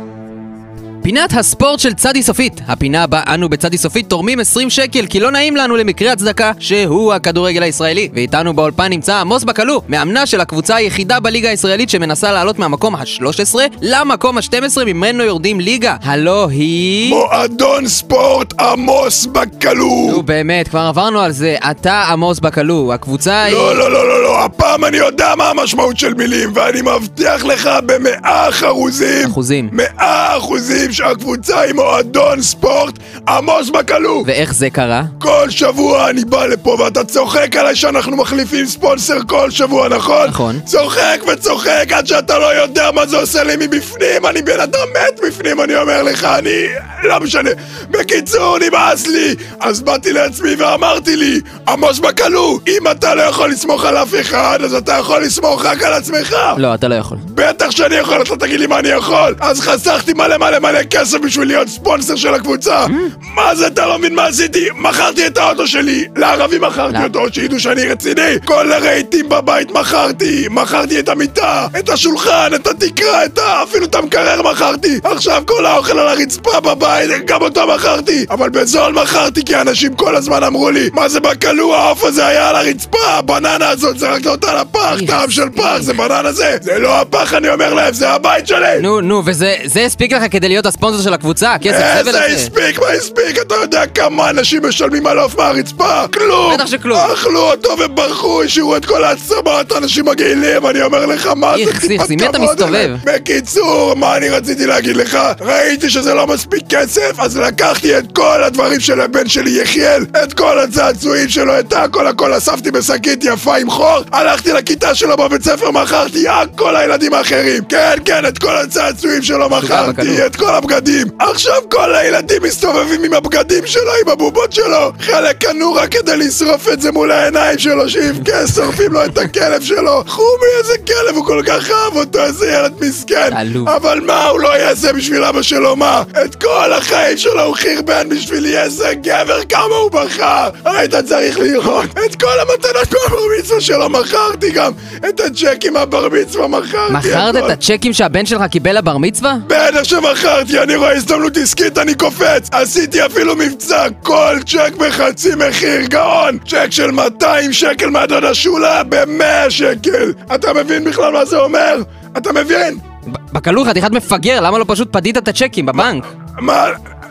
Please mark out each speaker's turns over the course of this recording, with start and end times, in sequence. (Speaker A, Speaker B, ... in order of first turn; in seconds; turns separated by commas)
Speaker A: 1.0-17.2, Speaker B: 17.0-20.2, Speaker A: 20.1-23.8, Speaker B: 23.4-34.3, Speaker A: 29.2-29.7, Speaker A: 34.2-35.1, Speaker B: 35.2-56.6, Speaker A: 40.2-40.6, Speaker A: 56.5-57.2, Speaker B: 57.2-88.8, Speaker A: 62.8-63.1, Speaker A: 84.9-86.0, Speaker A: 88.8-92.5, Speaker B: 91.6-147.6, Speaker A: 96.4-97.1, Speaker A: 101.5-103.0, Speaker A: 119.5-120.2, Speaker A: 133.3-133.7, Speaker A: 146.9-149.4, Speaker B: 149.4-162.8, Speaker A: 163.1-166.1, Speaker B: 165.7-166.8